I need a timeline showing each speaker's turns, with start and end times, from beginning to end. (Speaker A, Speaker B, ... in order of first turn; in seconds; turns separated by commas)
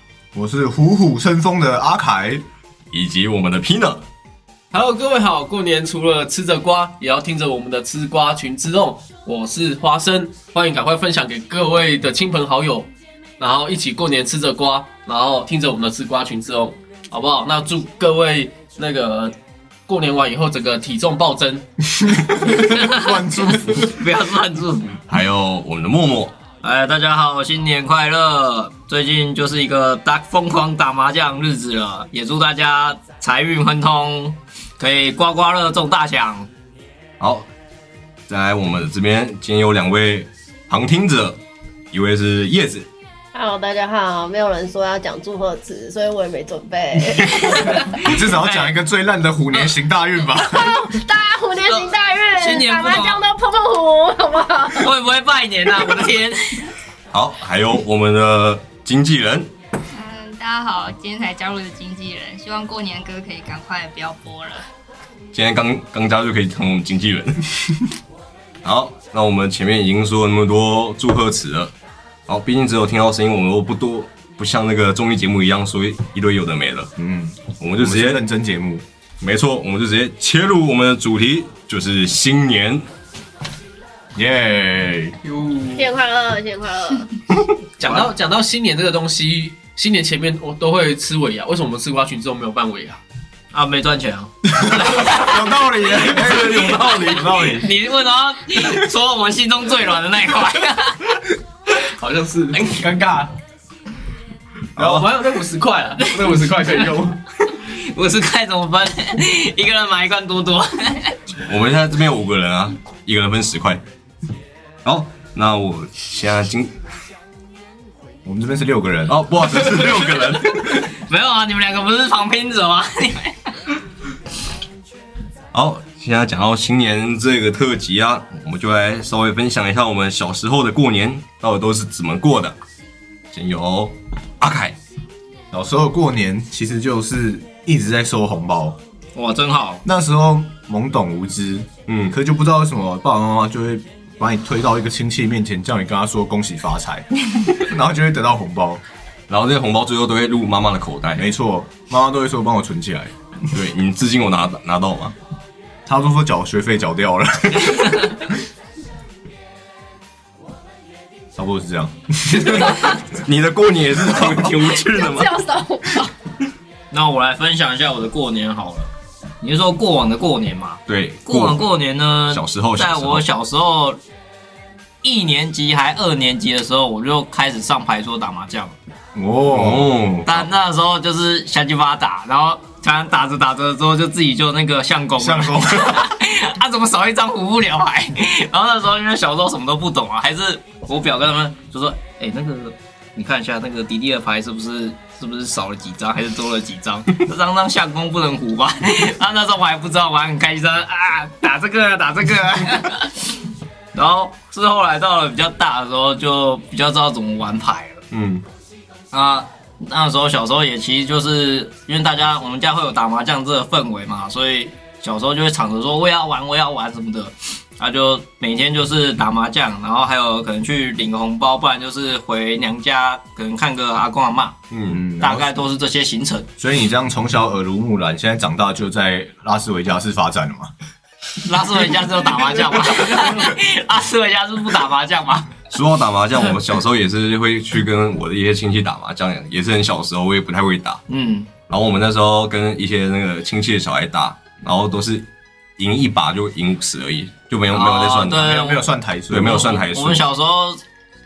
Speaker A: 0.3-2.4, Speaker B: 2.9-4.0, Speaker C: 4.7-19.3, Speaker C: 19.9-21.7, Speaker A: 22.0-24.0, Speaker D: 22.5-25.0, Speaker B: 25.1-26.3, Speaker D: 26.6-36.5, Speaker B: 37.2-37.5, Speaker B: 38.3-41.4, Speaker B: 41.9-42.9, Speaker E: 43.3-48.0, Speaker D: 47.7-48.8, Speaker A: 48.0-50.9, Speaker E: 50.4-54.9, Speaker D: 52.3-53.2, Speaker D: 54.7-56.7, Speaker B: 57.1-59.5, Speaker F: 59.9-64.6, Speaker B: 65.3-67.4, Speaker B: 68.6-71.7, Speaker B: 72.3-76.9, Speaker A: 77.0-78.8, Speaker B: 77.6-78.2, Speaker B: 79.2-82.9, Speaker A: 84.1-85.1, Speaker C: 85.3-85.9, Speaker E: 85.7-87.2, Speaker C: 87.8-93.0, Speaker D: 93.5-95.5, Speaker A: 94.5-97.7, Speaker B: 96.0-97.3, Speaker D: 97.3-101.2, Speaker C: 101.7-103.3, Speaker B: 104.8-105.1, Speaker C: 104.8-107.2, Speaker D: 107.6-111.2, Speaker B: 111.4-113.8, Speaker B: 114.8-116.8, Speaker A: 118.2-119.5, Speaker B: 119.1-120.9, Speaker D: 120.2-123.5, Speaker B: 125.5-132.6, Speaker B: 133.3-134.8, Speaker A: 135.5-138.8, Speaker D: 139.1-139.8, Speaker A: 139.8-148.8, Speaker B: 141.9-142.1, Speaker B: 149.3-151.3, Speaker A: 151.2-153.1, Speaker B: 153.5-155.1, Speaker A: 155.8-158.3, Speaker A: 161.3-162.8, Speaker B: 162.3-165.3, Speaker E: 164.7-166.1, Speaker D: 166.9-174.0, Speaker B: 170.9-171.7, Speaker B: 172.3-173.2, Speaker D: 175.0-178.7, Speaker A: 179.1-180.0, Speaker B: 179.5-180.5, Speaker D: 180.2-203.3, Speaker A: 185.2-186.1, Speaker D: 203.9-208.0, Speaker B: 208.1-208.4, Speaker D: 209.1-224.6, Speaker B: 224.7-225.0, Speaker A: 224.9-225.5, Speaker D: 225.2-226.5, Speaker A: 226.6-230.7, Speaker D: 231.4-235.5, Speaker B: 235.7-241.0, Speaker D: 241.1-241.5, Speaker B: 241.7-248.7, Speaker D: 247.7-248.9, Speaker A: 248.4-249.7, Speaker B: 249.3-250.2, Speaker D: 249.4-250.8